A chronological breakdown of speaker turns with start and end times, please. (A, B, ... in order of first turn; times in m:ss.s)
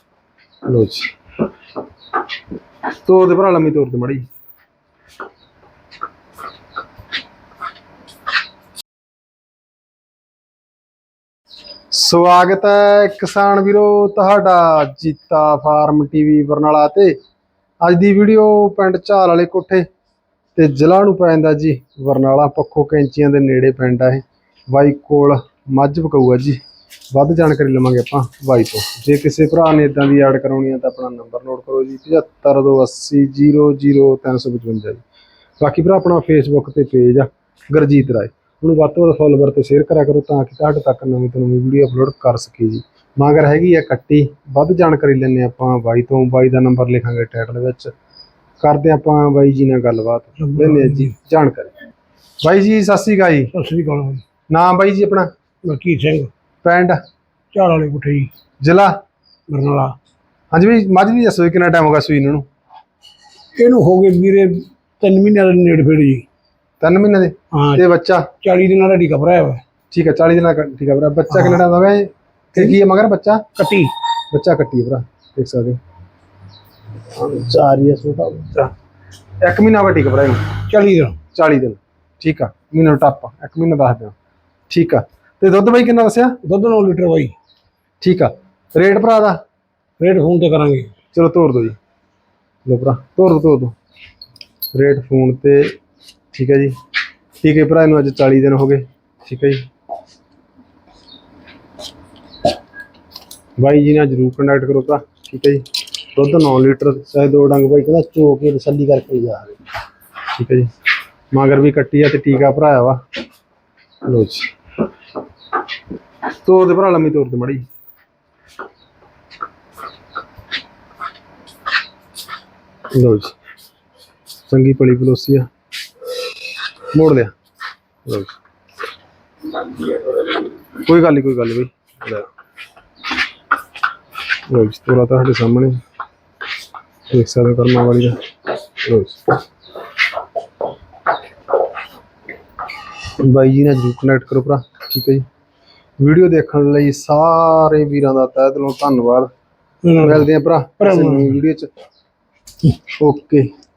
0:00.7-0:01.1 A
0:03.0-0:04.2 A
0:11.9-0:17.2 A
0:17.8-0:19.9 A
0:20.6-0:26.6 A
0:27.1-0:35.0 A
0:35.6-0:47.9 A
0:48.6-0:51.7 A
0:50.4-0:51.1 B
0:52.4-0:53.5 A
0:53.5-0:54.2 B
0:54.5-0:55.3 A
0:55.6-0:56.3 B
0:56.6-0:57.0 A
0:57.5-0:58.3 B
0:58.6-0:58.9 A
0:59.5-1:00.0 B
1:00.5-1:02.4 A
1:03.6-1:06.2 B
1:06.8-1:08.3 A
1:07.5-1:07.8 B
1:08.4-1:09.6 B
1:09.9-1:13.4 A
1:11.3-1:11.6 B
1:13.6-1:13.9 B
1:14.3-1:15.8 A
1:17.1-1:18.7 A
1:19.4-1:20.5 A
1:20.7-1:21.2 B
1:21.3-1:24.1 A
1:24.7-1:26.4 A
1:26.4-1:27.3 B
1:28.0-1:29.4 A
1:30.0-1:30.9 B
1:31.1-1:31.8 A
1:32.7-1:33.8 A
1:34.8-1:35.8 A
1:36.3-1:36.7 A
1:37.4-1:39.6 A
1:43.6-1:45.6 A
1:46.1-1:49.6 A
1:50.3-1:50.7 A
1:51.3-1:53.0 A
1:54.1-1:54.5 A
1:56.4-1:57.6 A
2:02.9-2:03.3 A
2:04.5-2:05.5 A
2:06.9-2:07.3 A
2:08.0-2:08.4 A
2:10.7-2:12.3 A
2:14.5-2:15.8 A
2:17.1-2:18.2 A
2:18.8-2:19.2 A
2:23.2-2:25.2 A
2:26.0-2:29.3 A
2:29.8-2:30.3 B
2:30.0-2:31.7 A
2:30.8-2:31.4 B
2:33.0-2:33.5 A